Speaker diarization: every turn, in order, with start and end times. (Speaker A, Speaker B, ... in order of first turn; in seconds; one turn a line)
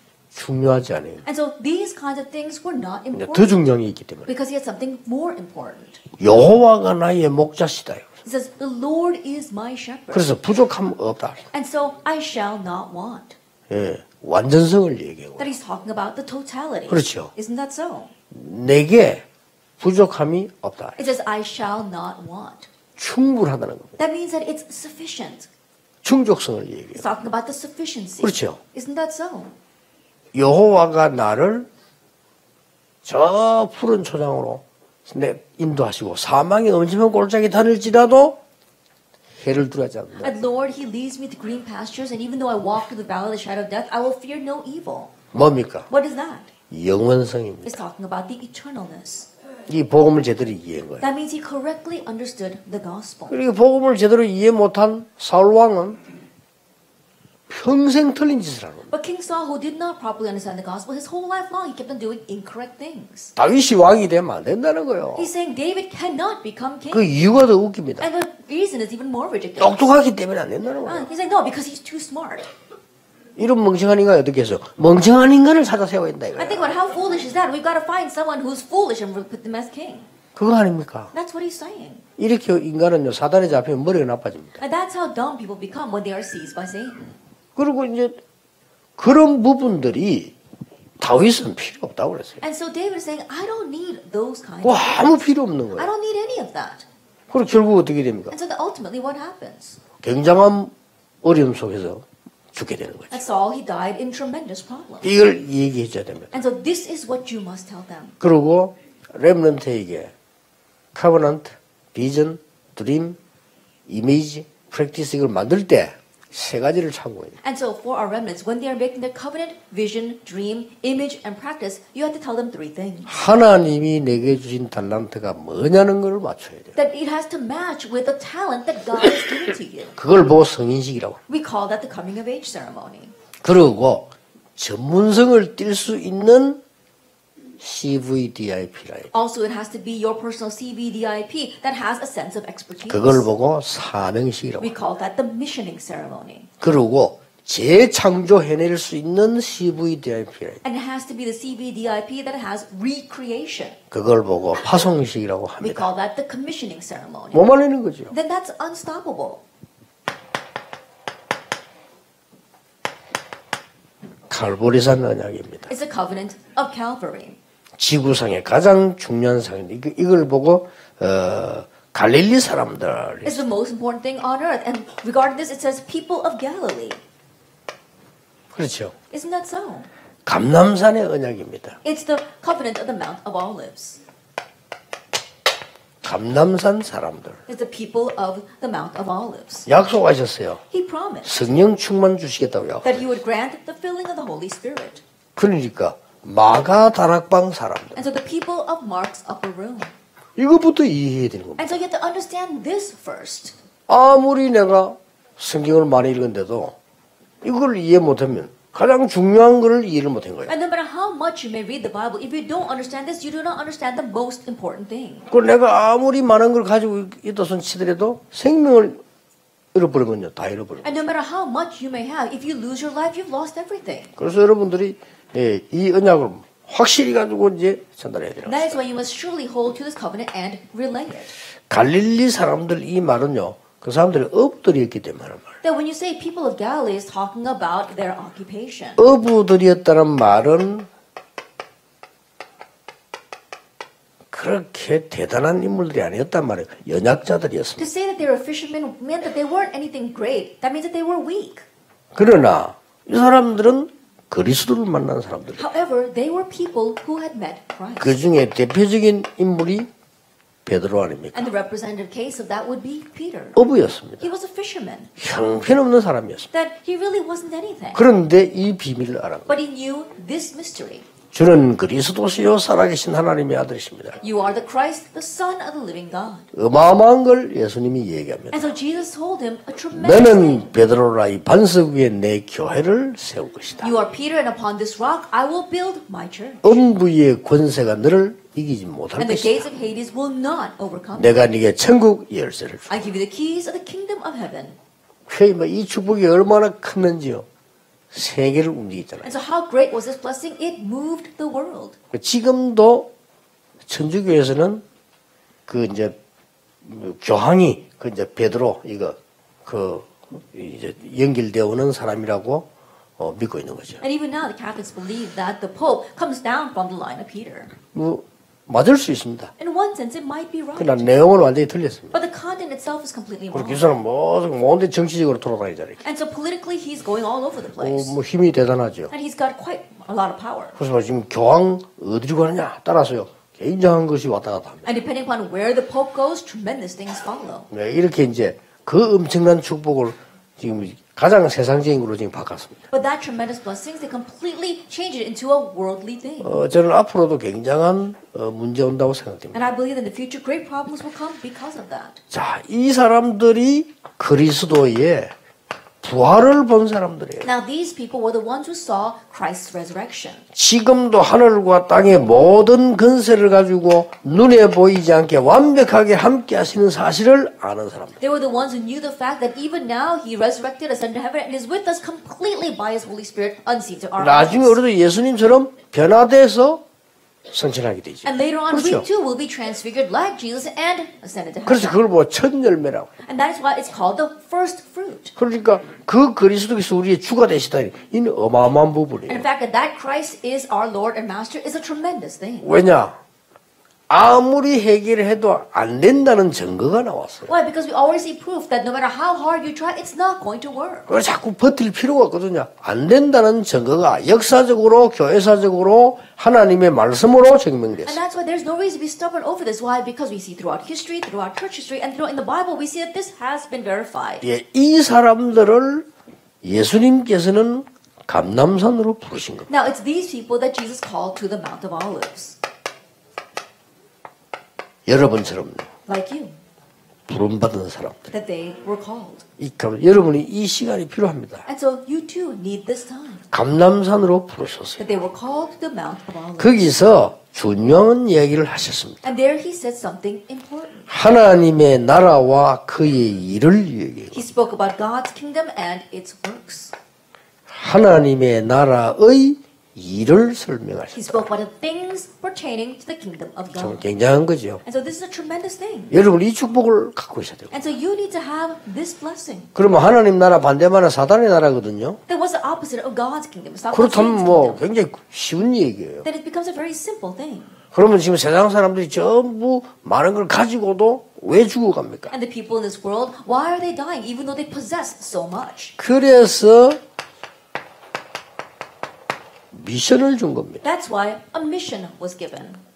Speaker A: 0.3-1.2
Speaker B: 1.2-3.6
Speaker A: 3.1-4.3
Speaker B: 4.2-6.0
Speaker A: 6.2-8.1
Speaker B: 8.2-10.3
Speaker A: 10.1-11.4
Speaker B: 11.5-13.4
Speaker A: 13.7-15.5
Speaker B: 15.4-18.1
Speaker A: 16.9-17.3
Speaker A: 18.3-19.2
Speaker A: 19.8-21.0
Speaker B: 21.0-22.7
Speaker A: 23.0-24.0
Speaker B: 24.0-25.5
Speaker A: 26.0-27.0
Speaker B: 26.9-29.5
Speaker A: 28.2-28.6
Speaker A: 30.3-31.7
Speaker A: 33.0-38.4
Speaker A: 39.4-40.3
Speaker B: 40.2-45.1
Speaker A: 45.3-45.9
Speaker B: 45.9-46.5
Speaker A: 46.7-47.8
Speaker B: 47.6-49.3
Speaker A: 49.7-51.0
Speaker B: 51.0-53.4
Speaker A: 53.3-56.0
Speaker A: 57.5-58.9
Speaker B: 58.9-63.3
Speaker A: 63.4-65.3
Speaker B: 65.2-67.1
Speaker A: 66.9-68.1
Speaker B: 68.0-69.8
Speaker A: 69.6-71.1
Speaker B: 70.8-72.5
Speaker A: 73.4-76.7
Speaker B: 76.4-80.1
Speaker A: 80.3-81.1
Speaker B: 81.1-82.0
Speaker A: 82.2-84.6
Speaker B: 84.6-87.1
Speaker A: 87.5-88.2
Speaker A: 89.0-90.3
Speaker A: 91.0-92.4
Speaker B: 92.4-96.8
Speaker A: 94.6-95.9
Speaker A: 97.3-98.3
Speaker B: 98.3-99.8
Speaker A: 100.0-103.2
Speaker B: 103.1-105.1
Speaker A: 105.0-106.4
Speaker B: 106.3-108.2
Speaker A: 108.2-110.1
Speaker A: 110.9-113.2
Speaker A: 113.9-117.4
Speaker B: 117.4-123.2
Speaker A: 123.1-126.7
Speaker B: 126.7-129.9
Speaker A: 129.9-131.2
Speaker B: 131.3-133.1
Speaker A: 133.4-136.6
Speaker A: 137.6-139.1
Speaker B: 139.1-143.3
Speaker A: 142.9-144.7
Speaker B: 144.6-146.5
Speaker A: 146.6-150.6
Speaker B: 150.6-153.8
Speaker A: 153.9-155.9
Speaker B: 155.6-157.4
Speaker A: 157.3-158.1
Speaker B: 158.1-159.4
Speaker A: 164.3-165.7
Speaker B: 165.7-167.4
Speaker A: 167.8-173.5
Speaker B: 173.2-177.0
Speaker A: 178.5-178.9
Speaker B: 179.1-179.9
Speaker A: 180.2-181.8
Speaker B: 181.8-184.0
Speaker A: 186.0-187.4
Speaker B: 187.5-189.7
Speaker A: 189.7-190.6
Speaker B: 190.7-191.3
Speaker A: 191.2-193.1
Speaker B: 192.8-195.0
Speaker A: 195.3-198.0
Speaker B: 197.9-199.9
Speaker A: 200.3-201.8
Speaker B: 201.6-203.5
Speaker A: 203.9-206.8
Speaker A: 207.4-210.5
Speaker B: 210.5-215.3
Speaker A: 215.3-219.0
Speaker A: 219.7-221.0
Speaker B: 220.8-224.1
Speaker A: 224.2-228.8
Speaker B: 228.4-231.3
Speaker A: 231.7-235.5
Speaker B: 235.6-239.0
Speaker A: 239.0-240.9
Speaker A: 244.3-247.8
Speaker B: 247.8-251.7
Speaker A: 252.1-255.6
Speaker B: 255.6-258.3
Speaker A: 258.0-259.9
Speaker A: 260.6-261.5
Speaker B: 261.3-263.6
Speaker A: 263.6-264.2
Speaker B: 264.2-265.1
Speaker A: 265.2-266.5
Speaker B: 266.5-268.0
Speaker A: 267.9-269.5
Speaker B: 269.5-271.1
Speaker A: 271.3-274.2
Speaker B: 274.2-276.5
Speaker A: 276.5-278.7
Speaker B: 278.5-280.7
Speaker A: 279.9-283.9
Speaker B: 283.8-286.8
Speaker A: 286.6-289.6
Speaker B: 289.2-291.4
Speaker A: 291.2-293.0
Speaker B: 292.9-294.8
Speaker A: 295.3-297.5
Speaker A: 298.1-299.3
Speaker B: 299.2-301.9
Speaker A: 302.1-303.1
Speaker A: 303.9-304.8
Speaker A: 305.7-306.1
Speaker A: 306.8-314.0
Speaker B: 314.0-317.7
Speaker A: 317.9-319.5
Speaker B: 319.6-321.1
Speaker A: 320.8-322.1
Speaker B: 322.1-323.9
Speaker A: 323.5-326.0
Speaker B: 326.0-328.1
Speaker A: 327.8-329.1
Speaker B: 329.1-330.8
Speaker A: 330.8-334.9
Speaker B: 334.8-337.7
Speaker A: 337.7-342.8
Speaker B: 342.9-346.5
Speaker A: 346.4-349.6
Speaker B: 349.5-352.2
Speaker A: 352.3-355.3
Speaker A: 356.0-357.5
Speaker B: 357.4-360.4
Speaker A: 360.5-368.2
Speaker B: 368.2-374.8
Speaker A: 374.2-376.8
Speaker A: 377.5-379.1
Speaker B: 378.2-382.0
Speaker A: 381.6-383.1
Speaker B: 383.2-385.3
Speaker A: 385.4-389.4
Speaker B: 389.3-392.7
Speaker A: 392.6-393.2
Speaker A: 394.1-397.5
Speaker B: 397.4-401.1
Speaker A: 401.1-408.2
Speaker B: 408.0-414.4
Speaker A: 414.4-416.1
Speaker A: 416.6-419.7
Speaker B: 419.7-422.6
Speaker A: 425.1-425.9
Speaker B: 426.1-426.6
Speaker A: 427.3-428.3
Speaker B: 428.3-429.4
Speaker A: 429.6-431.6
Speaker B: 431.6-433.5
Speaker A: 433.5-435.0
Speaker B: 435.0-436.9
Speaker A: 436.6-439.2
Speaker B: 439.2-441.1
Speaker A: 441.1-444.4
Speaker B: 444.3-446.9
Speaker A: 447.7-451.4
Speaker B: 451.1-454.0
Speaker A: 453.8-454.8
Speaker B: 454.8-456.1
Speaker A: 456.1-457.7
Speaker B: 457.7-459.7
Speaker A: 459.7-462.2
Speaker B: 462.3-464.8
Speaker A: 463.9-466.2
Speaker B: 466.2-467.8
Speaker A: 467.9-472.3
Speaker B: 472.3-475.9
Speaker A: 476.0-477.0
Speaker A: 479.7-480.8
Speaker B: 480.8-482.8